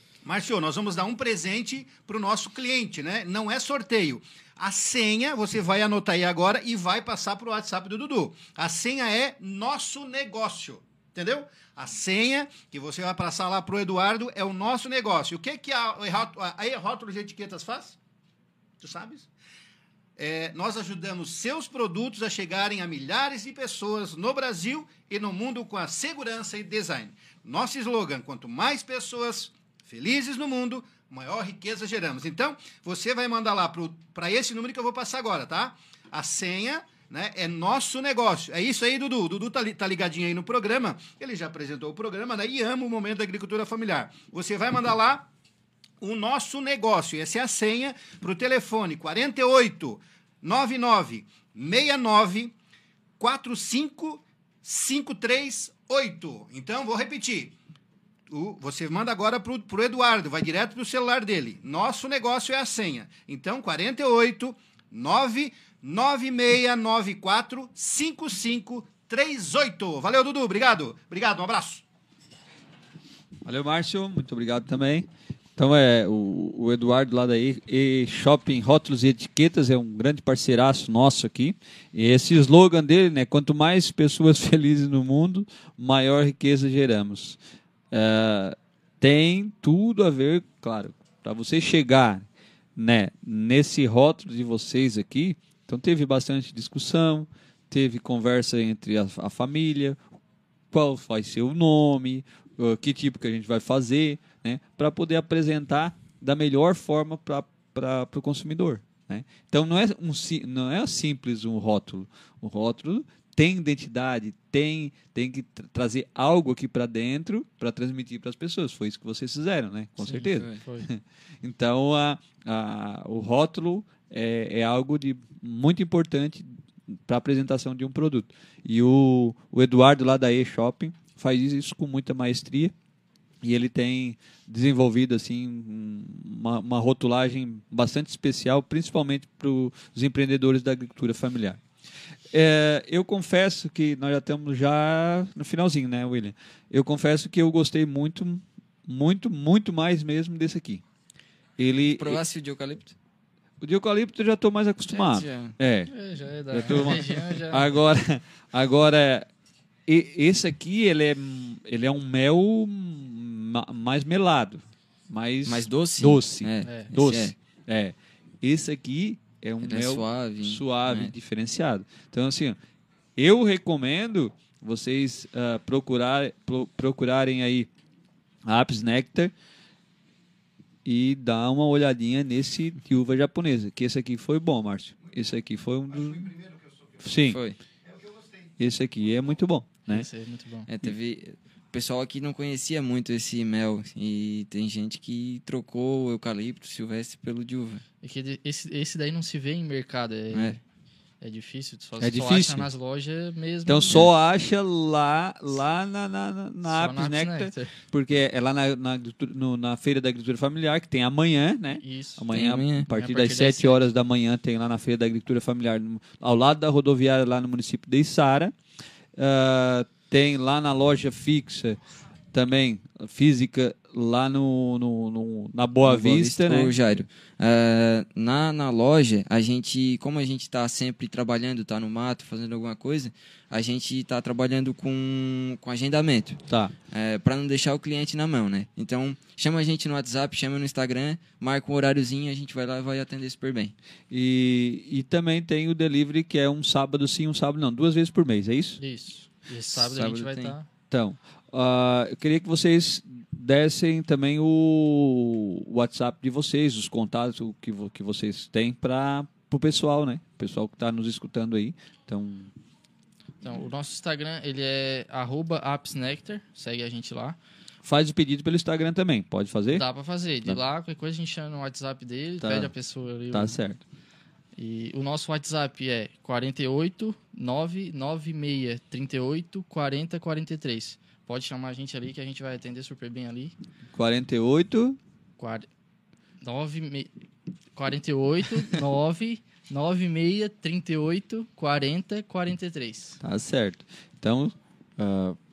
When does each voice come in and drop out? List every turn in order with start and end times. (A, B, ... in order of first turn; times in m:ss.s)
0:00.2-0:18.0 A
0:18.8-0:19.3 A
0:20.2-0:45.3 A
0:46.0-0:52.6 A
0:53.2-0:57.6 A
0:58.3-1:11.8 A
1:13.4-1:27.4 B
1:27.9-1:40.0 B
1:40.7-2:12.7 B
2:00.0-2:00.6 C
2:13.4-2:21.6 B
2:22.3-2:30.8 B
2:31.6-2:32.2 B
2:31.8-2:33.0 C
2:33.6-2:35.9 B
2:34.9-2:35.5 C
2:35.9-2:37.7 D
2:36.5-2:39.3 B
2:39.9-2:52.6 B
2:45.4-2:47.4 C
2:46.6-2:46.9 D
2:49.6-2:51.1 C
2:53.2-2:57.7 B
2:58.4-2:59.3 B
3:00.8-3:06.3 B
3:05.0-3:05.3 A
3:05.8-3:07.3 A
3:07.0-3:07.4 B
3:07.3-3:07.6 C
3:07.8-3:09.4 A
3:08.6-3:10.1 B
3:09.9-3:10.7 D
3:10.7-3:17.8 C
3:18.0-3:20.6 D
3:20.3-3:20.6 C
3:21.2-3:24.0 D
3:22.0-3:22.7 B
3:23.6-3:38.5 B
3:26.6-3:27.7 D
3:31.8-3:32.3 D
3:32.3-3:32.9 C
3:32.9-3:33.9 D
3:39.2-3:41.8 B
3:42.3-3:46.8 B
3:45.8-4:03.7 C
3:56.5-3:56.7 B
4:04.1-4:08.8 B
4:08.8-4:10.7 D
4:09.7-4:10.5 C
4:10.9-4:22.5 B
4:23.4-4:27.4 D
4:27.8-4:29.8 B
4:29.7-4:33.6 D
4:32.4-4:32.7 B
4:33.3-4:33.8 B
4:34.6-4:43.5 D
4:43.9-4:45.0 B
4:45.4-4:45.7 D
4:46.4-4:47.1 D
4:47.8-4:53.2 D
4:53.2-4:55.4 B